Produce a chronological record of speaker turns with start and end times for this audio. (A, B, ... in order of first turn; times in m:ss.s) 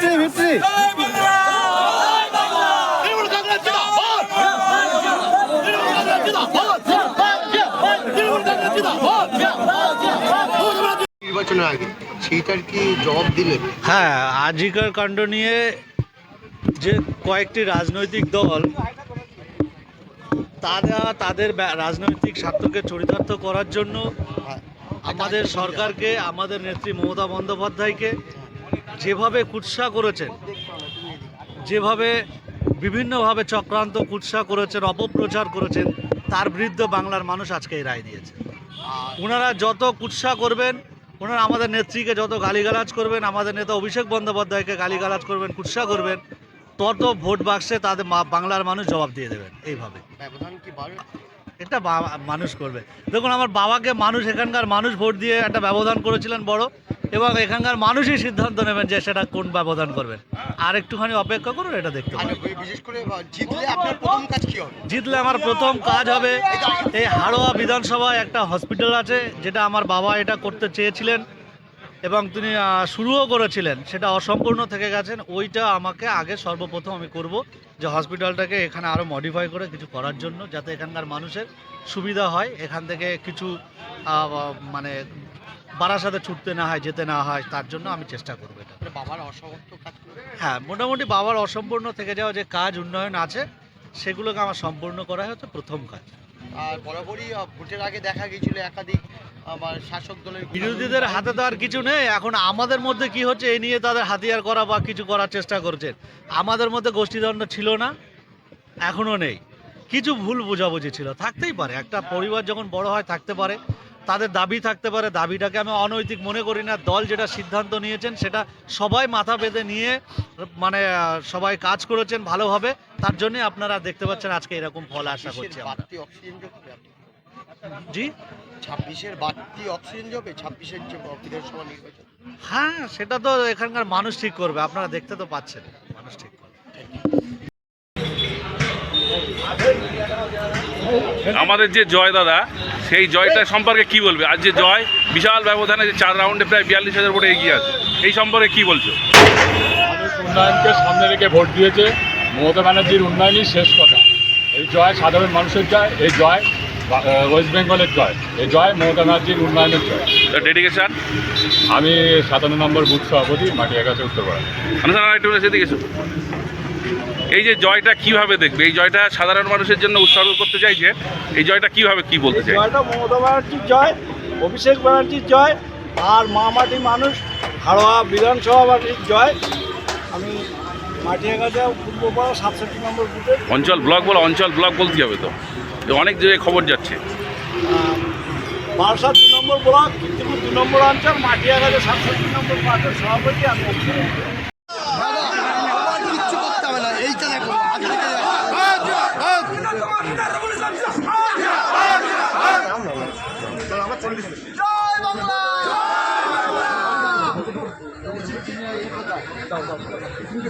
0:10.3-0:13.7 A
0:13.8-0:15.8 B
0:16.8-0:18.7 B
0:20.6-0:24.1 B
0:24.4-0:26.1 A
0:25.1-0:28.2 B
0:29.0-0:30.4 B
0:30.3-0:31.5 A
0:31.6-0:32.2 B
0:32.8-0:38.4 B
0:38.9-0:39.4 A
0:39.2-0:46.2 B
0:46.8-0:50.0 B
0:50.2-0:51.1 A
0:51.6-1:02.4 B
1:02.2-1:04.8 A
1:04.9-1:11.2 B
1:06.5-1:07.0 A
1:12.1-1:23.5 B
1:24.1-1:25.0 B
1:25.8-1:28.8 B
1:28.8-1:30.3 A
1:30.4-1:33.4 B
1:34.0-1:36.1 B
1:36.6-1:41.4 A
1:40.5-1:47.9 B
1:48.9-2:05.8 B
2:05.0-2:07.0 A
2:08.6-2:12.1 A
2:12.5-2:16.5 B
2:16.8-2:17.0 A
2:21.3-2:29.0 C
2:29.9-2:40.2 D
2:40.3-2:41.0 C
2:41.7-2:44.5 D
2:44.8-2:45.8 C
2:47.3-2:52.6 C
2:52.3-2:59.3 E
3:01.0-3:03.4 E
3:03.5-3:05.3 C
3:05.9-3:07.0 C
3:08.8-3:14.3 E